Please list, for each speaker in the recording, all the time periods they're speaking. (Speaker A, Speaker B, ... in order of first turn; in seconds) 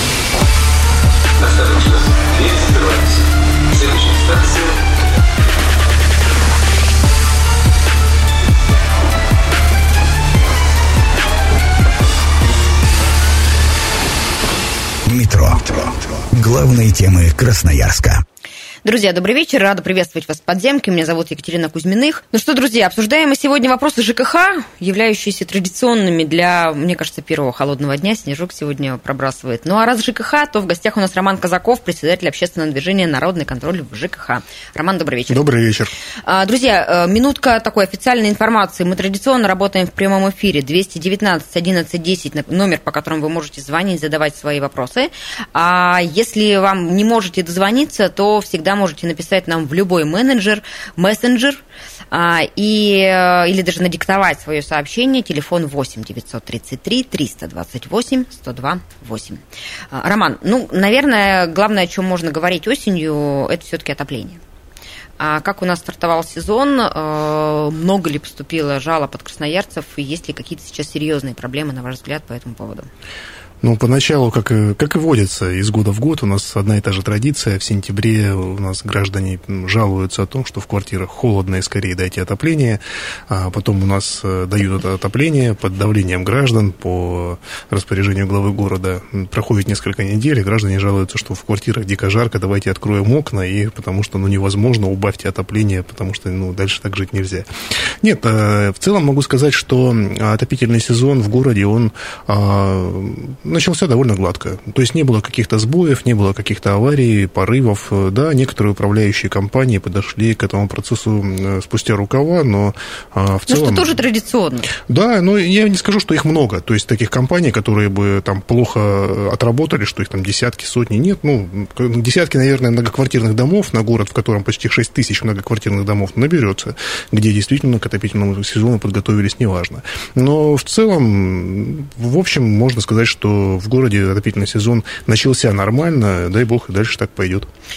Speaker A: 1.4-4.8
Speaker B: 15.0-18.2
Speaker C: 18.8-35.4, 36.2-64.4, 65.2-72.9, 113.5-114.7
Speaker D: 35.3-35.9, 73.6-97.5, 98.0-114.0, 114.7-137.5